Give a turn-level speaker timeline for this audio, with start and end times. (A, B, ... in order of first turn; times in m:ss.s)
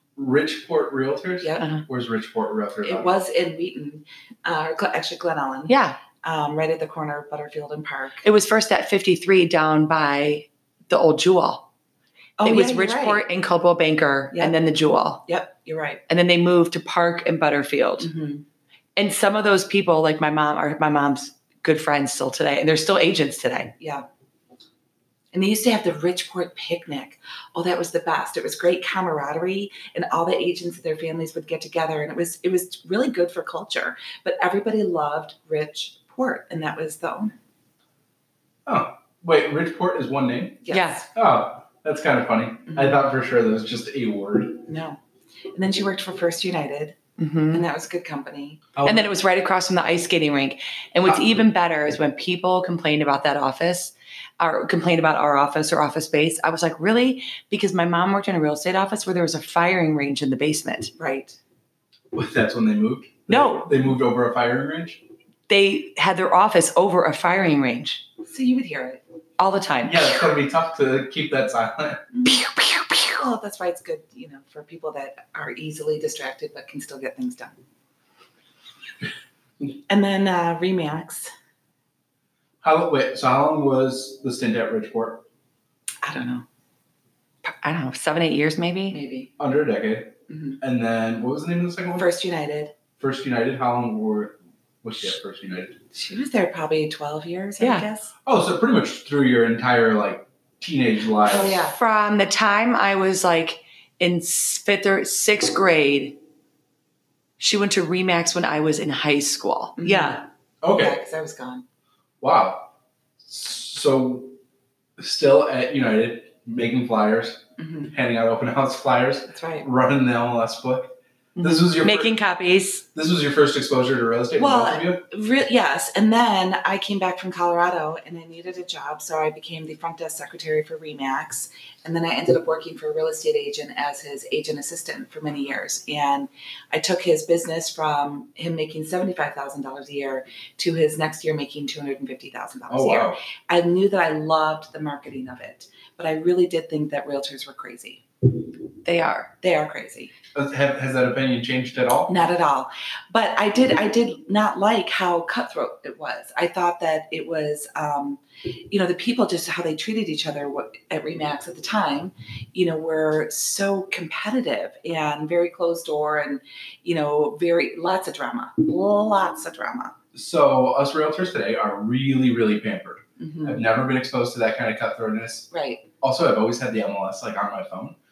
0:00.2-0:03.2 A
0:01.6-0:01.8 B
0:02.8-0:08.2 C
0:05.7-0:06.0 B
0:08.2-0:11.7 B
0:12.4-0:13.2 C
0:12.4-0:15.2 B
0:15.2-0:16.0 C
0:16.1-0:18.1 B
0:18.0-0:18.4 C
0:19.0-0:23.7 B
0:23.8-0:24.1 C
0:25.3-0:37.4 C
0:38.7-0:40.6 A
0:40.6-0:41.1 C
0:40.7-0:41.0 B
0:41.2-0:44.7 A
0:42.7-0:43.0 C
0:44.7-0:45.0 C
0:45.5-0:47.0 C
0:47.2-0:47.6 B
0:47.5-0:48.8 C
0:48.8-0:49.1 A
0:48.8-1:00.9 B
1:01.0-1:01.4 C
1:02.1-1:05.0 A
1:03.3-1:03.7 B
1:05.5-1:08.0 B
1:08.2-1:09.0 C
1:09.4-1:10.2 B
1:09.8-1:12.0 A
1:12.1-1:12.5 C
1:12.3-1:13.2 B
1:13.0-1:17.6 C
1:19.9-1:21.3 C
1:22.6-1:25.2 A
1:26.0-1:26.5 C
1:27.6-1:29.0 B
1:28.9-1:29.3 C
1:29.4-1:32.1 A
1:30.3-1:30.6 C
1:32.0-1:32.7 C
1:33.0-1:35.8 A
1:35.9-1:38.1 C
1:37.6-1:37.9 B
1:38.3-1:41.6 A
1:41.2-1:41.8 C
1:41.6-1:46.2 B
1:47.4-1:50.2 B
1:49.8-1:50.2 C
1:50.6-1:51.0 A
1:50.8-1:51.6 C
1:52.2-1:52.7 A
1:53.2-1:54.4 A
1:55.0-2:02.1 A
1:57.6-1:58.0 C
1:59.3-1:59.7 C
2:01.4-2:02.8 B
2:02.9-2:05.0 A
2:04.4-2:28.0 C
2:22.7-2:23.2 A
2:28.8-2:29.3 B
2:29.4-2:30.2 C
2:30.4-2:32.1 A
2:32.1-2:49.9 C
2:50.1-2:55.5 A
2:53.2-2:53.7 C
2:55.5-2:55.8 C
2:56.0-2:58.0 A